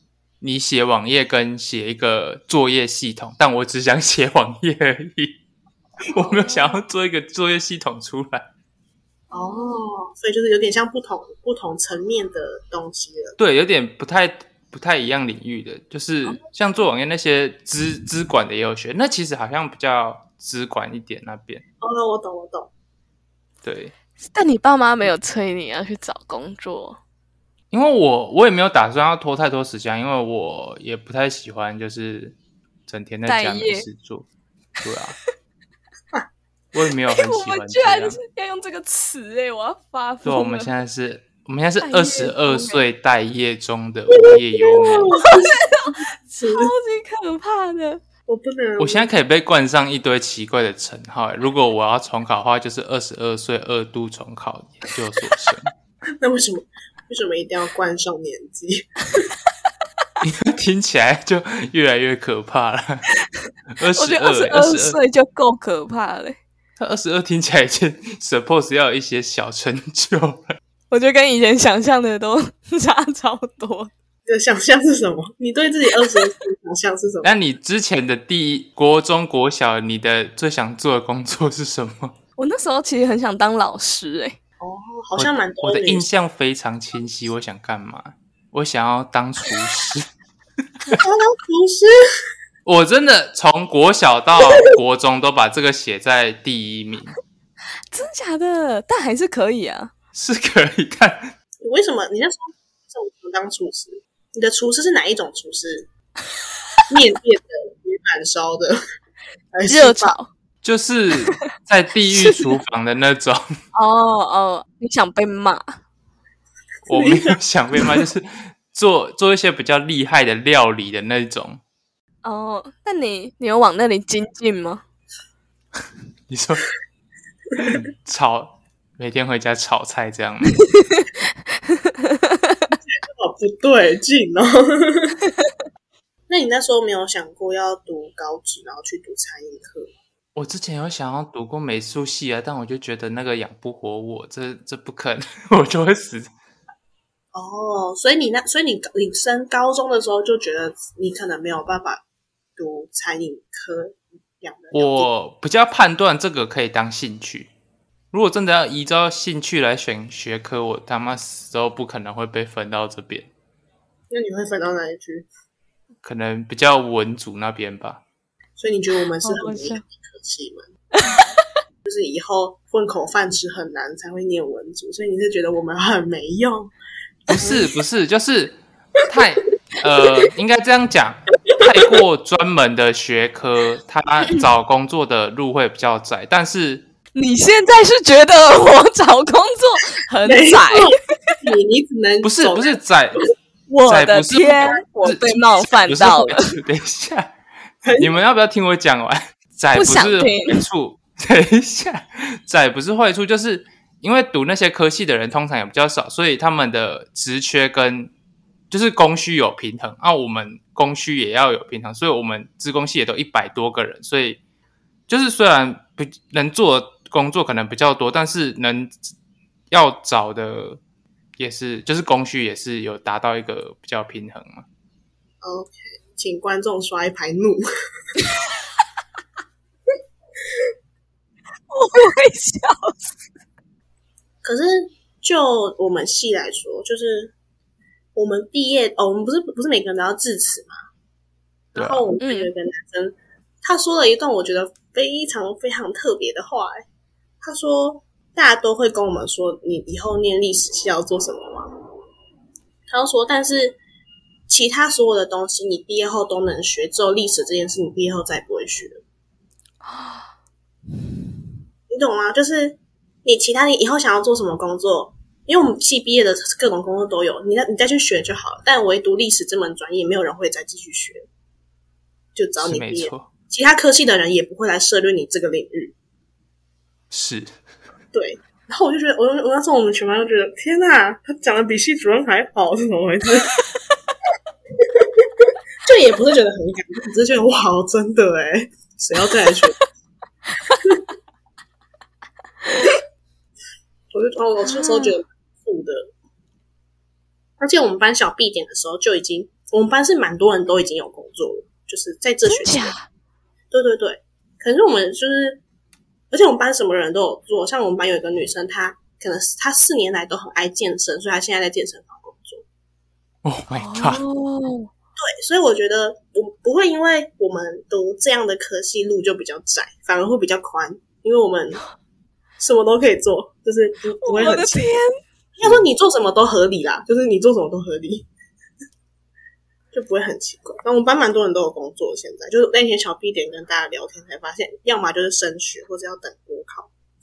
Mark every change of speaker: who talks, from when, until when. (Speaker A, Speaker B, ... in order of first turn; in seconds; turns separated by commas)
Speaker A: 0.4-5.4, Speaker A: 6.1-8.5, Speaker B: 6.2-6.8, Speaker B: 9.3-9.9, Speaker C: 9.3-13.3, Speaker A: 13.4-21.6, Speaker C: 21.8-22.7, Speaker A: 23.6-23.9, Speaker B: 24.3-27.0, Speaker A: 27.7-32.4, Speaker A: 32.9-34.3, Speaker B: 33.3-33.8, Speaker A: 34.8-35.1, Speaker A: 36.7-38.2, Speaker B: 37.1-40.7, Speaker A: 40.2-45.1, Speaker B: 41.8-42.8, Speaker C: 44.1-46.7, Speaker B: 45.2-48.0, Speaker C: 48.3-49.1, Speaker A: 48.8-55.7, Speaker C: 56.2-59.2, Speaker A: 60.2-63.1, Speaker B: 63.5-66.4, Speaker A: 63.8-65.0, Speaker A: 66.8-70.6, Speaker B: 70.9-73.9, Speaker C: 74.2-77.3, Speaker A: 77.2-82.2, Speaker B: 82.4-84.4, Speaker C: 84.6-86.1, Speaker A: 85.2-90.1, Speaker C: 90.9-91.9, Speaker A: 92.6-97.1, Speaker B: 97.9-99.9, Speaker A: 100.1-101.3, Speaker C: 101.6-105.9, Speaker C: 106.9-108.8, Speaker C: 109.5-110.1, Speaker B: 109.7-110.3, Speaker A: 110.6-113.5, Speaker B: 113.7-115.8, Speaker A: 116.9-121.6, Speaker C: 116.9-117.3, Speaker B: 122.2-124.8, Speaker A: 126.3-126.7, Speaker A: 127.6-130.6, Speaker B: 131.7-132.7, Speaker C: 132.8-135.2, Speaker C: 136.3-139.9, Speaker A: 140.3-146.3, Speaker C: 147.3-152.0, Speaker C: 152.6-155.1, Speaker A: 154.7-157.5, Speaker A: 158.1-163.3, Speaker C: 164.1-165.3, Speaker A: 166.0-168.0, Speaker C: 168.6-170.7, Speaker B: 169.2-169.8, Speaker B: 170.9-171.3, Speaker C: 171.8-176.7, Speaker A: 177.3-186.8, Speaker C: 177.4-177.6, Speaker B: 187.1-191.3, Speaker C: 190.2-192.8, Speaker A: 192.2-193.2, Speaker B: 193.7-196.5, Speaker A: 193.8-197.3, Speaker C: 197.8-198.2, Speaker A: 198.0-208.1, Speaker B: 199.7-200.6, Speaker A: 208.7-214.4, Speaker A: 215.1-219.1, Speaker A: 219.7-220.8, Speaker A: 221.4-224.6, Speaker C: 225.4-227.6, Speaker B: 231.7-233.1, Speaker C: 234.4-237.3, Speaker C: 238.1-240.7, Speaker C: 241.7-246.8, Speaker A: 241.7-242.1, Speaker B: 242.2-242.5, Speaker C: 247.4-251.7, Speaker C: 252.9-253.8, Speaker C: 254.5-259.0, Speaker B: 259.8-260.2, Speaker C: 261.9-271.2, Speaker C: 272.3-275.9, Speaker A: 272.6-273.3, Speaker A: 277.1-277.5, Speaker C: 278.1-283.6, Speaker C: 285.0-289.8, Speaker C: 294.1-296.1, Speaker B: 294.6-295.2, Speaker C: 297.6-302.9, Speaker B: 302.4-303.1, Speaker C: 303.7-305.6, Speaker C: 306.3-312.6, Speaker A: 313.4-314.2, Speaker B: 313.8-314.9, Speaker C: 315.2-321.8, Speaker C: 322.6-324.9, Speaker B: 324.2-325.1, Speaker C: 325.6-328.3, Speaker C: 329.9-336.9